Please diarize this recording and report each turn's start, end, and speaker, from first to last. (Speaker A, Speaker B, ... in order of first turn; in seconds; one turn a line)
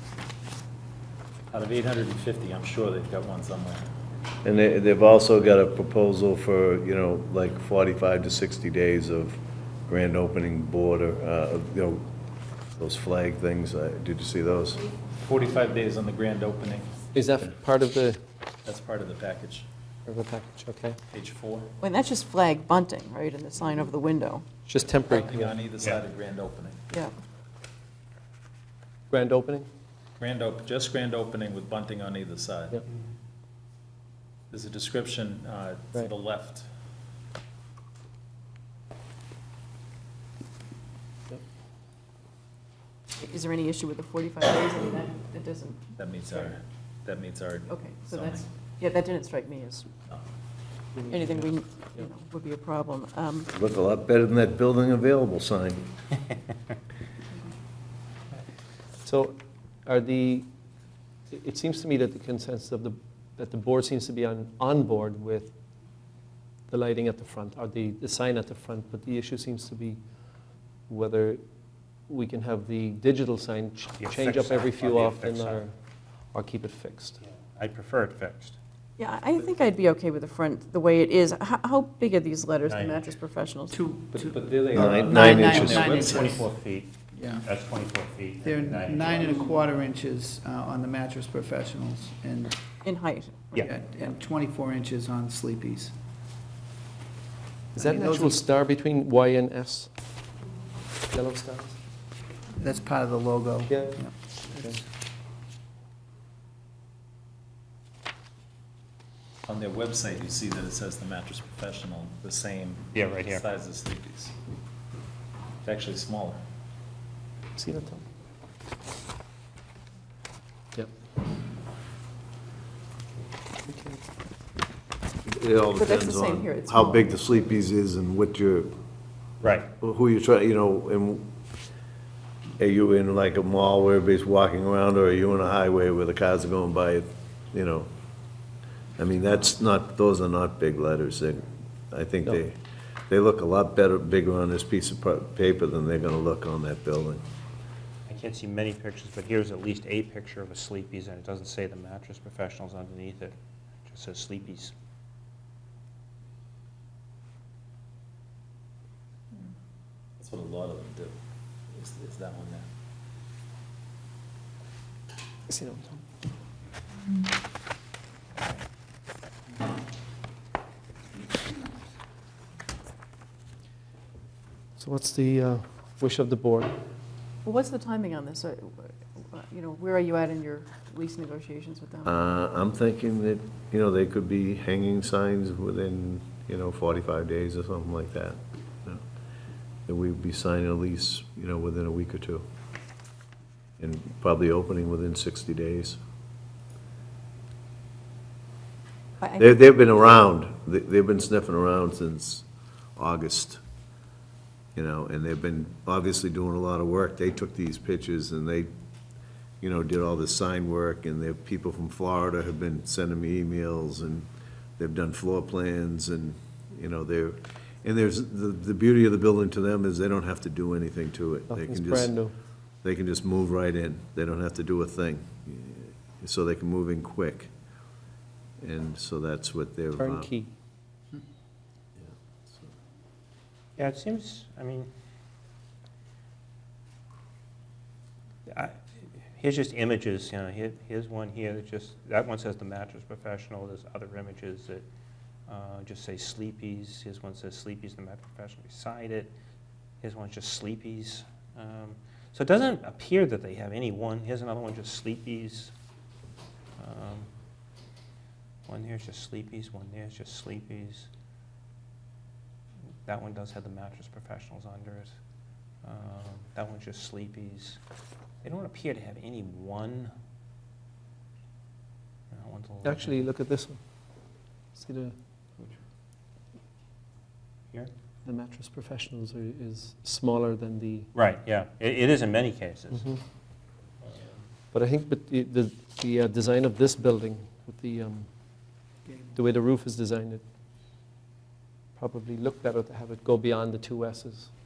Speaker A: 1.5-3.8
Speaker B: 4.4-12.0
Speaker B: 12.8-14.8
Speaker A: 15.2-16.9
Speaker C: 17.1-18.2
Speaker A: 18.6-19.7
Speaker C: 20.1-21.0
Speaker A: 21.1-21.7
Speaker D: 21.8-24.5
Speaker C: 24.6-25.6
Speaker A: 25.0-26.8
Speaker C: 29.1-29.7
Speaker A: 30.2-32.8
Speaker A: 34.5-36.7
Speaker D: 43.1-45.9
Speaker A: 46.0-48.5
Speaker D: 47.7-49.9
Speaker C: 51.0-52.0
Speaker D: 51.1-53.5
Speaker B: 53.5-55.9
Speaker C: 59.0-60.5
Speaker C: 61.3-65.5
Speaker C: 66.7-70.0
Speaker C: 70.9-71.4
Speaker C: 72.1-75.7
Speaker E: 74.0-75.6
Speaker C: 76.3-77.2
Speaker E: 77.2-78.6
Speaker D: 79.0-83.8
Speaker E: 82.7-83.0
Speaker F: 83.7-86.3
Speaker A: 84.1-86.4
Speaker B: 84.7-86.4
Speaker E: 86.0-89.5
Speaker F: 87.2-87.4
Speaker F: 88.4-92.5
Speaker D: 92.8-94.2
Speaker F: 93.6-95.9
Speaker C: 97.7-99.9
Speaker F: 97.8-98.3
Speaker C: 101.1-101.8
Speaker F: 102.6-104.1
Speaker C: 103.7-104.8
Speaker A: 109.5-114.3
Speaker E: 112.9-113.4
Speaker A: 115.6-116.4
Speaker C: 117.5-118.0
Speaker C: 123.7-124.1
Speaker B: 125.3-128.7
Speaker D: 125.8-127.2
Speaker E: 129.4-129.7
Speaker B: 129.8-131.3
Speaker B: 132.6-137.9
Speaker B: 139.0-142.6
Speaker B: 143.1-147.2
Speaker E: 148.1-154.7
Speaker A: 160.2-161.2
Speaker A: 161.7-162.7
Speaker C: 165.5-166.0
Speaker C: 174.8-176.8
Speaker D: 177.4-182.1
Speaker B: 182.0-189.0
Speaker B: 189.9-192.4
Speaker B: 193.8-196.0
Speaker B: 199.3-202.4
Speaker B: 202.9-203.6
Speaker B: 204.7-208.7
Speaker B: 209.6-222.1
Speaker C: 221.5-222.3
Speaker B: 222.8-227.5
Speaker B: 228.6-230.3
Speaker C: 230.0-230.5
Speaker E: 233.8-234.9
Speaker E: 238.5-244.8
Speaker E: 245.5-249.3
Speaker E: 250.0-255.7
Speaker E: 256.8-257.3
Speaker E: 258.6-261.1
Speaker E: 263.1-265.1
Speaker E: 265.8-267.8
Speaker E: 268.4-270.1
Speaker E: 272.3-273.3
Speaker C: 272.8-273.8
Speaker C: 274.7-275.1
Speaker C: 278.2-281.1
Speaker E: 281.1-283.2
Speaker C: 282.9-283.2
Speaker C: 284.7-290.4
Speaker C: 291.9-294.5